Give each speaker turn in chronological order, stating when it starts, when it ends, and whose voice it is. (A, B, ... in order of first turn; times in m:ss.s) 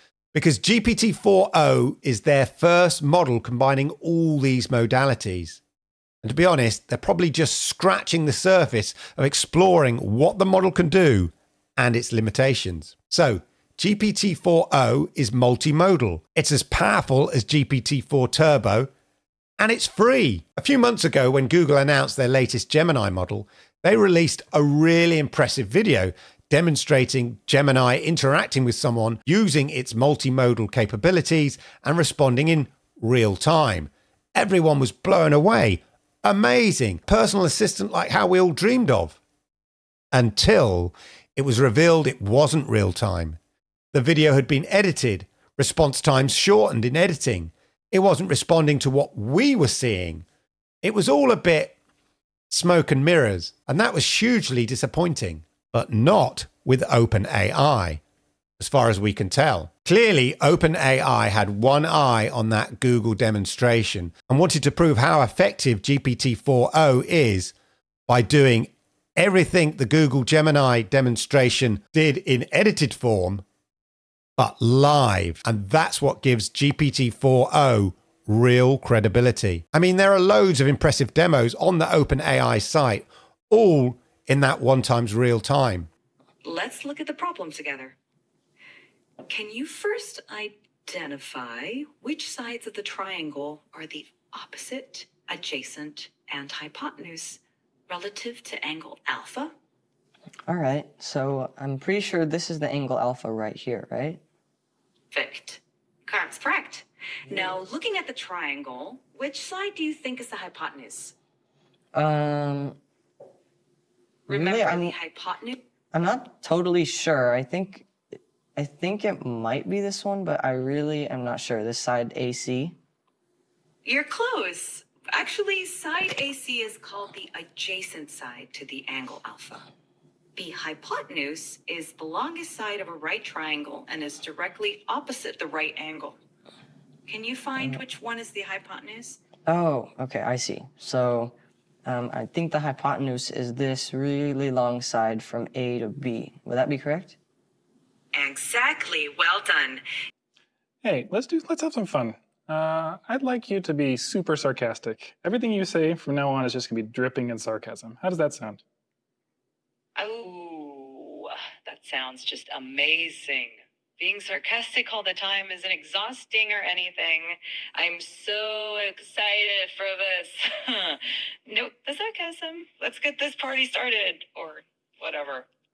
0:00.3-0:05.6 A
0:06.2-0:18.9 A
0:19.6-0:39.2 A
0:40.1-0:43.4 A
0:43.9-0:50.2 A
0:50.8-0:51.8 A
0:52.5-0:58.0 A
0:58.6-1:07.5 A
1:08.1-1:13.4 A
1:14.4-1:25.9 A
1:26.4-1:28.0 B
1:29.3-1:39.5 B
1:40.5-1:44.2 C
1:45.1-1:51.1 B
1:51.9-1:52.8 C
1:54.3-1:55.0 C
1:54.3-1:55.6 B
1:55.9-1:57.9 C
1:58.6-2:02.7 C
2:03.8-2:09.6 B
2:10.4-2:16.2 B
2:17.1-2:19.2 B
2:19.5-2:21.3 C
2:21.9-2:27.2 C
2:28.1-2:29.8 B
2:30.8-2:38.6 D
2:40.0-2:55.4 B